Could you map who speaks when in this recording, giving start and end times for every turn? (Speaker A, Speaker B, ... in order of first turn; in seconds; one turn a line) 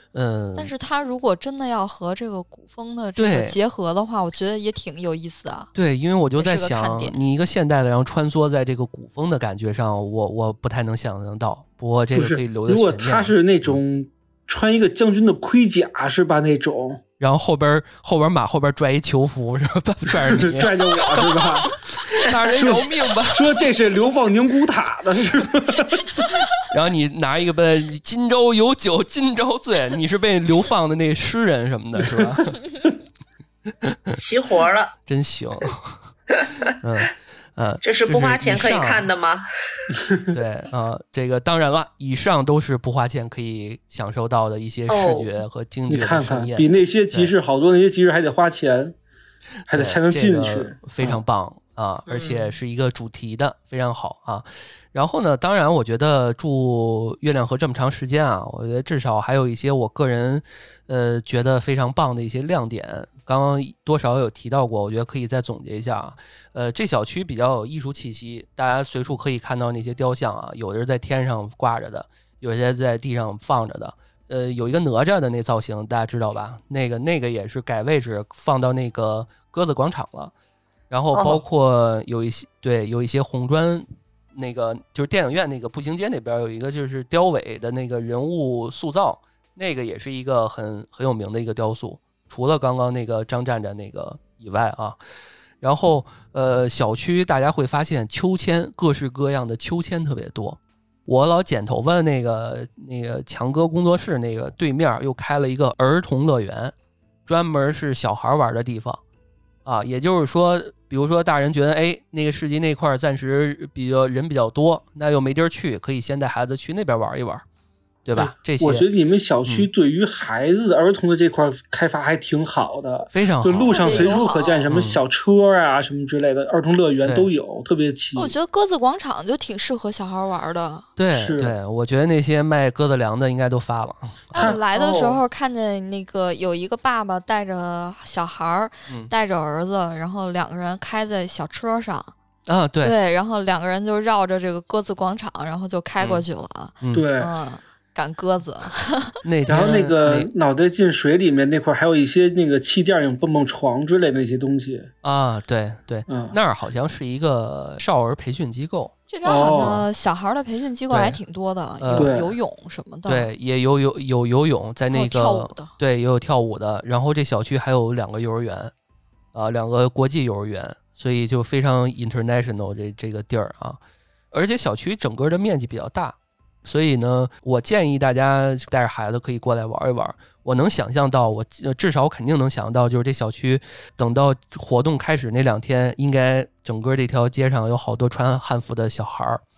Speaker A: 0.1-0.7
Speaker B: 0.6-5.7
Speaker A: 3.2-3.5
Speaker A: 5.7-13.8
Speaker B: 6.4-7.2
Speaker C: 12.1-17.0
Speaker A: 17.2-21.2
Speaker C: 20.2-21.8
Speaker A: 21.9-23.5
Speaker C: 22.4-26.3
Speaker A: 26.6-32.6
Speaker A: 33.8-34.2
Speaker D: 34.1-34.9
Speaker A: 35.1-36.0
Speaker A: 36.7-39.1
Speaker D: 37.8-39.9
Speaker C: 40.0-40.3
Speaker A: 40.3-47.3
Speaker D: 44.9-45.3
Speaker C: 45.9-49.0
Speaker C: 49.7-51.2
Speaker A: 49.7-80.3
Speaker D: 52.1-52.5
Speaker A: 80.9-95.0
Speaker D: 81.1-81.4
Speaker A: 95.6-106.7
Speaker A: 107.2-109.0
Speaker A: 109.6-117.4
Speaker A: 118.0-118.9
Speaker C: 118.1-128.3
Speaker A: 123.1-124.1
Speaker B: 123.7-124.7
Speaker A: 124.7-125.0
Speaker A: 127.0-127.3
Speaker B: 128.2-130.9
Speaker A: 131.0-134.5
Speaker C: 131.1-131.5
Speaker B: 134.3-142.1
Speaker C: 134.3-134.6
Speaker D: 134.7-135.2
Speaker A: 142.5-142.9
Speaker B: 142.8-149.2
Speaker A: 146.0-146.2
Speaker A: 146.8-147.1
Speaker C: 146.9-147.3
Speaker A: 149.2-150.3
Speaker C: 149.5-154.9
Speaker A: 155.0-159.8
Speaker C: 156.1-156.3
Speaker B: 159.1-163.3
Speaker C: 159.2-159.8
Speaker A: 160.9-161.2
Speaker A: 161.8-162.2
Speaker C: 161.9-162.3
Speaker A: 163.1-168.7
Speaker B: 164.9-165.7
Speaker A: 169.3-173.8
Speaker A: 174.3-189.4